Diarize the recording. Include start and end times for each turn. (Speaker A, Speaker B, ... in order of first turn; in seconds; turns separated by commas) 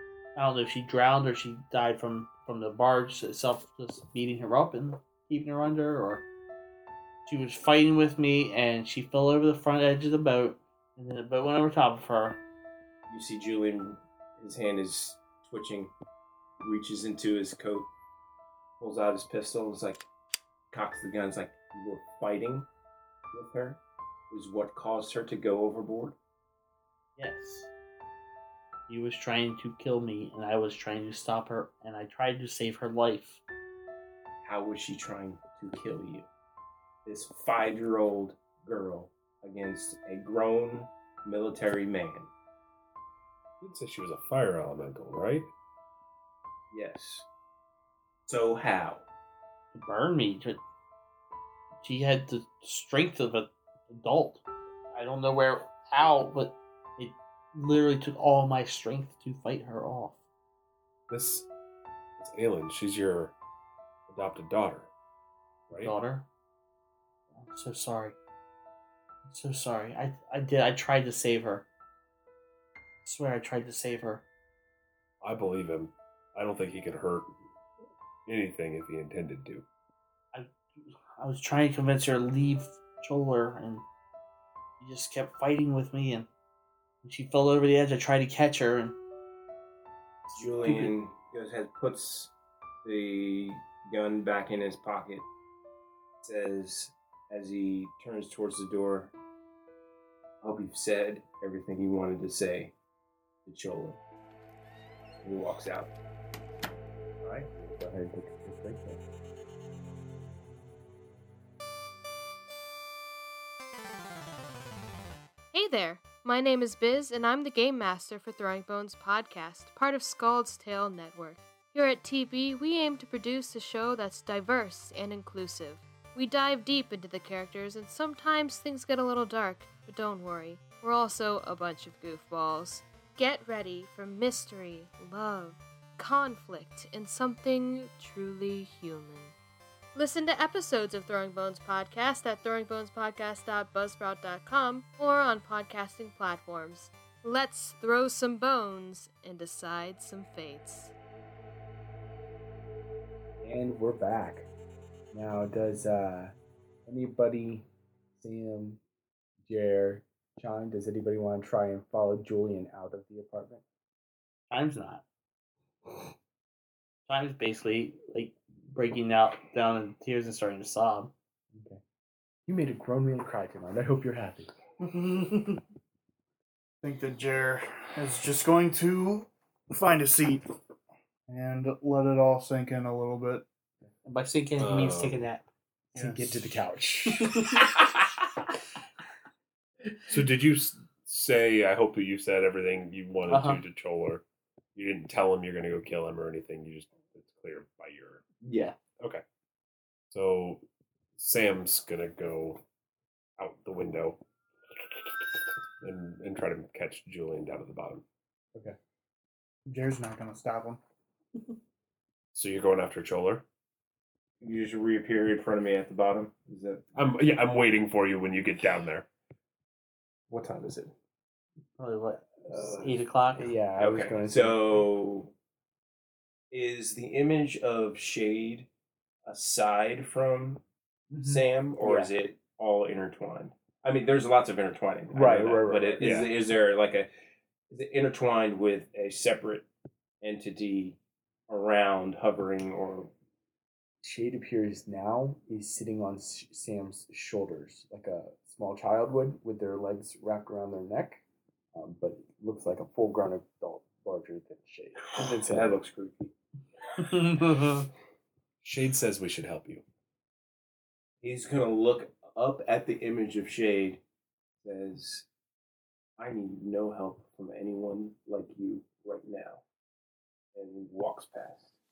Speaker A: 0.3-6.2, Speaker A: 7.2-12.4, Speaker B: 13.1-15.9, Speaker B: 16.6-17.9, Speaker B: 18.8-20.1, Speaker B: 20.7-22.7, Speaker B: 23.3-23.8, Speaker B: 24.3-26.1, Speaker A: 27.2-27.7, Speaker A: 28.9-33.4, Speaker B: 34.4-36.3, Speaker B: 37.0-42.3, Speaker C: 43.6-45.5, Speaker B: 46.7-47.2, Speaker B: 48.3-49.0, Speaker A: 49.7-50.6, Speaker A: 51.8-54.4, Speaker A: 54.9-60.2, Speaker C: 61.1-61.5, Speaker C: 62.2-63.3, Speaker C: 64.1-64.9, Speaker A: 65.7-66.2, Speaker A: 67.4-68.1, Speaker A: 69.3-71.6, Speaker A: 73.0-74.2, Speaker C: 75.2-77.3, Speaker C: 78.2-79.6, Speaker A: 81.2-83.8, Speaker A: 84.8-86.3, Speaker A: 87.0-89.0, Speaker A: 90.3-90.9, Speaker B: 90.3-92.3, Speaker B: 92.8-95.2, Speaker B: 96.2-99.1, Speaker B: 100.4-102.7, Speaker B: 103.4-104.0, Speaker B: 105.2-105.9, Speaker D: 107.2-109.0, Speaker E: 115.5-139.3, Speaker E: 139.9-150.9, Speaker D: 153.4-154.5, Speaker D: 155.1-156.3, Speaker D: 156.8-158.8, Speaker D: 159.4-163.6, Speaker A: 164.5-165.0, Speaker A: 167.1-171.1, Speaker D: 171.5-171.8, Speaker D: 172.5-174.5, Speaker A: 174.9-175.6, Speaker F: 176.8-180.5, Speaker F: 181.3-183.4, Speaker A: 184.0-185.4, Speaker C: 184.6-185.2, Speaker D: 185.9-187.6, Speaker F: 186.0-186.2, Speaker A: 187.3-187.6, Speaker C: 190.1-194.2, Speaker A: 193.3-193.6, Speaker C: 194.7-198.2, Speaker C: 200.1-200.6, Speaker C: 201.2-202.6, Speaker C: 203.4-204.2, Speaker C: 204.8-205.3, Speaker C: 205.8-208.0, Speaker F: 209.7-210.8, Speaker C: 212.3-213.4, Speaker B: 214.4-216.8, Speaker C: 216.9-219.1, Speaker B: 220.3-220.9, Speaker A: 221.8-223.5, Speaker D: 223.3-224.8, Speaker B: 223.8-225.3, Speaker B: 226.5-228.7, Speaker B: 229.2-230.6, Speaker D: 231.1-232.1, Speaker B: 231.2-237.1, Speaker D: 235.1-236.2, Speaker C: 236.0-236.3, Speaker B: 237.7-239.7, Speaker B: 240.2-241.0, Speaker B: 241.5-243.1, Speaker D: 244.0-251.2, Speaker D: 251.7-255.8, Speaker B: 255.4-256.3, Speaker A: 257.0-257.9, Speaker C: 258.6-259.8, Speaker B: 261.2-264.0, Speaker B: 264.6-265.2, Speaker B: 266.2-269.6, Speaker B: 270.5-271.7